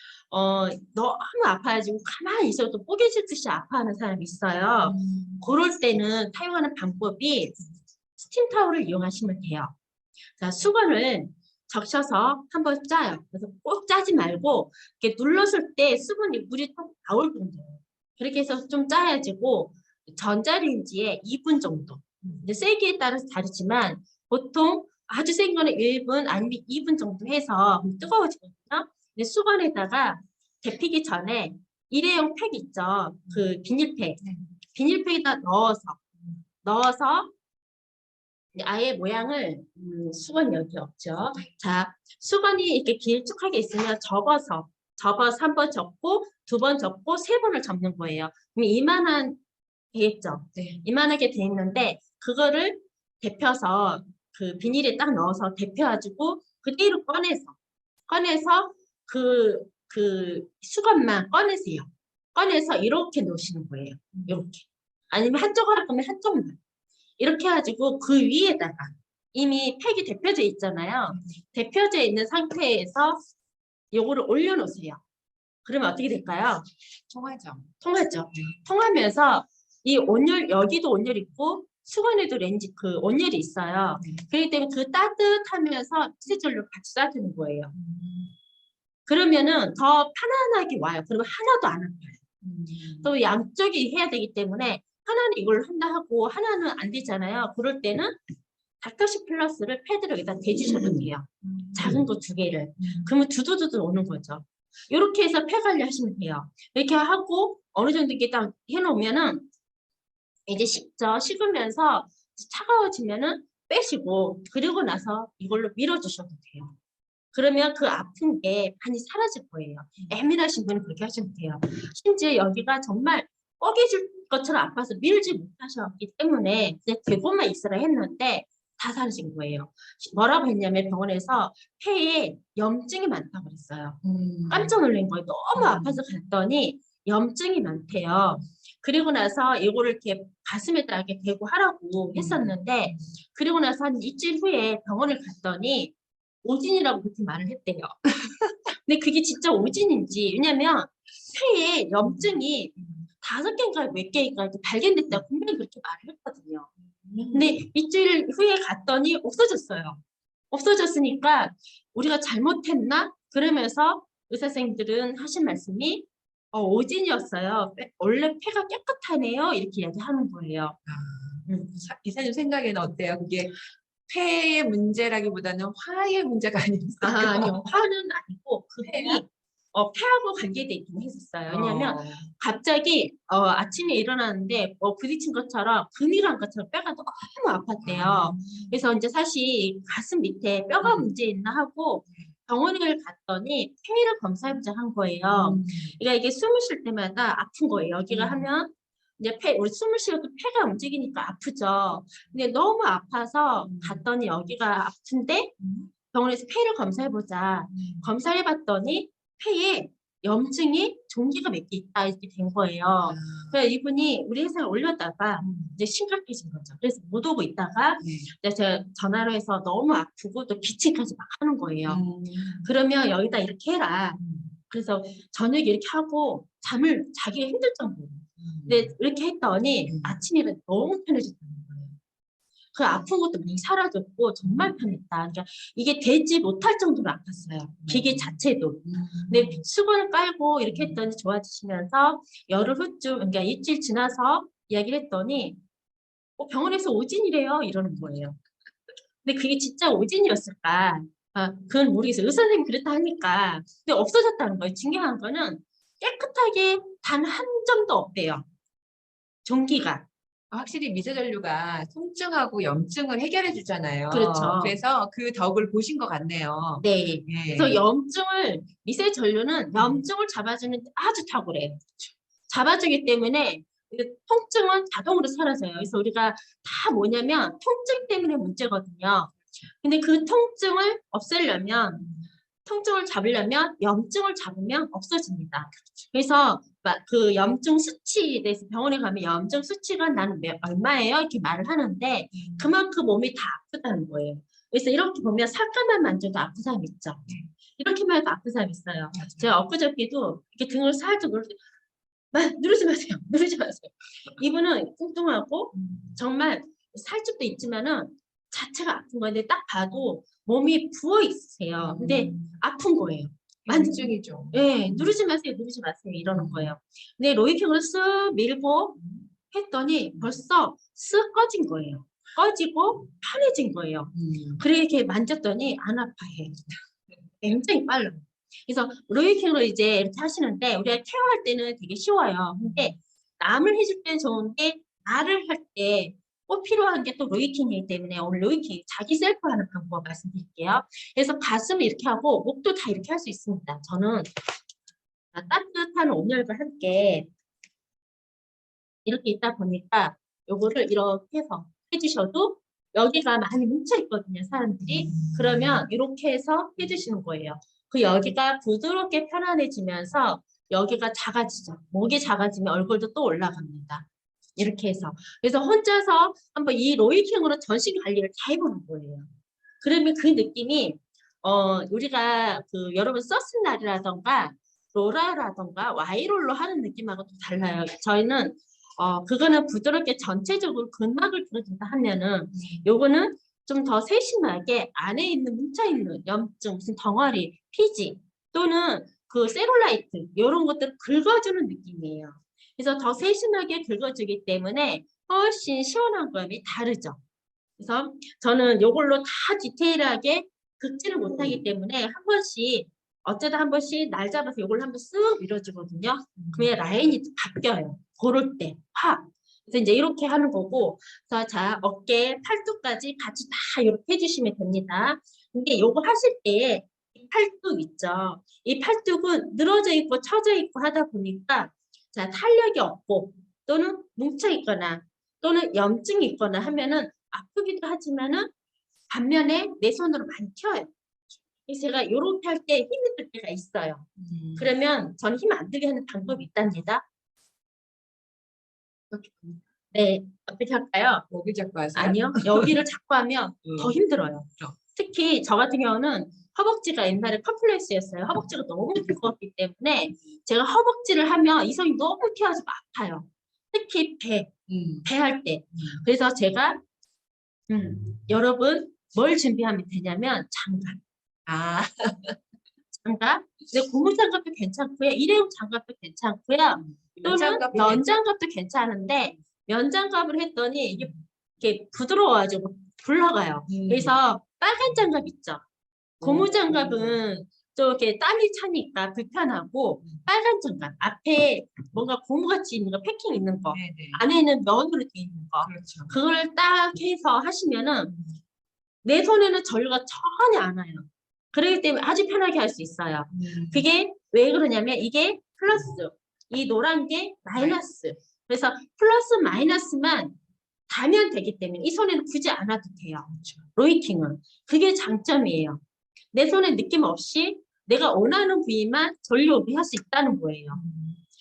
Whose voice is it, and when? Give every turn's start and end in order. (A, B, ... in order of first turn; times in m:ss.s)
0:00.3-0:07.6 A
0:04.8-0:05.4 B
0:08.2-0:09.7 A
0:10.4-0:34.2 A
0:34.7-0:36.0 A
0:36.6-0:37.3 A
0:38.5-0:49.4 A
0:49.9-0:57.6 A
0:58.1-1:06.6 A
1:04.1-1:04.4 B
1:07.2-1:13.2 A
1:13.9-1:15.0 A
1:15.6-1:16.6 A
1:17.1-1:17.7 B
1:17.8-1:27.7 A
1:27.7-1:28.3 B
1:29.0-1:32.2 A
1:32.4-1:33.1 B
1:33.0-1:38.2 A
1:38.8-1:49.5 A
1:41.4-1:42.0 B
1:42.8-1:43.1 B
1:50.5-1:56.7 A
1:57.3-2:28.0 A
2:14.0-2:14.7 B
2:15.5-2:16.0 B
2:22.1-2:23.0 B
2:28.8-2:36.7 A
2:37.0-2:37.4 B
2:37.3-2:50.8 A
2:50.9-2:57.7 B
2:51.5-2:51.8 A
2:57.0-3:25.5 A
2:58.8-2:59.2 B
3:01.5-3:02.3 B
3:07.8-3:08.8 B
3:10.8-3:11.1 B
3:15.3-3:16.0 B
3:18.1-3:18.5 B
3:23.6-3:24.0 B
3:25.6-3:25.9 B
3:26.1-3:42.0 A
3:27.7-3:28.1 B
3:33.0-3:33.5 B
3:35.4-3:35.8 B
3:38.0-3:38.3 B
3:41.9-3:42.7 B
3:42.6-3:52.0 A
3:44.2-3:44.5 B
3:48.4-3:48.9 B
3:49.8-3:50.2 B
3:52.7-4:05.6 A
3:54.4-3:54.7 B
3:57.8-3:58.3 B
3:58.8-3:59.6 B
4:00.7-4:01.0 B
4:06.4-4:08.4 A
4:09.2-4:18.4 A
4:19.4-4:20.0 A
4:20.5-4:27.8 B
4:24.1-4:24.7 A
4:26.8-4:31.8 A
4:29.7-4:30.0 B
4:32.5-4:42.1 A
4:42.6-4:57.2 A
4:52.4-4:52.7 B
4:57.8-5:01.6 A
4:59.2-4:59.5 B
5:02.3-5:19.0 A
5:05.8-5:06.1 B
5:11.8-5:12.5 B
5:13.6-5:15.1 B
5:16.3-5:16.7 B
5:19.5-5:26.6 A
5:24.1-5:24.6 B
5:27.4-5:44.3 A
5:32.6-5:32.9 B
5:45.3-5:47.3 A
5:49.0-6:09.3 A
6:09.8-6:37.2 A
6:22.6-6:22.9 B
6:37.8-7:08.5 A
6:46.4-6:46.7 B
7:09.1-7:10.9 A
7:11.7-7:17.0 A
7:14.2-7:14.7 B
7:19.1-7:19.6 B
7:19.9-7:21.3 A
7:21.3-7:22.7 B
7:21.9-7:34.5 A
7:23.6-7:24.0 B
7:34.7-7:35.0 B
7:35.0-7:36.8 A
7:37.7-7:41.0 A
7:41.5-7:42.4 B
7:42.9-7:55.6 A
7:46.8-7:48.1 B
7:53.7-7:54.1 B
7:56.2-7:57.2 B
7:56.2-8:08.1 A
8:03.7-8:04.2 B
8:05.6-8:06.1 B
8:08.1-8:08.4 B
8:09.0-8:20.4 A
8:13.3-8:13.8 B
8:20.9-8:25.8 A
8:23.3-8:23.7 B
8:26.3-8:30.8 A
8:30.7-8:31.2 B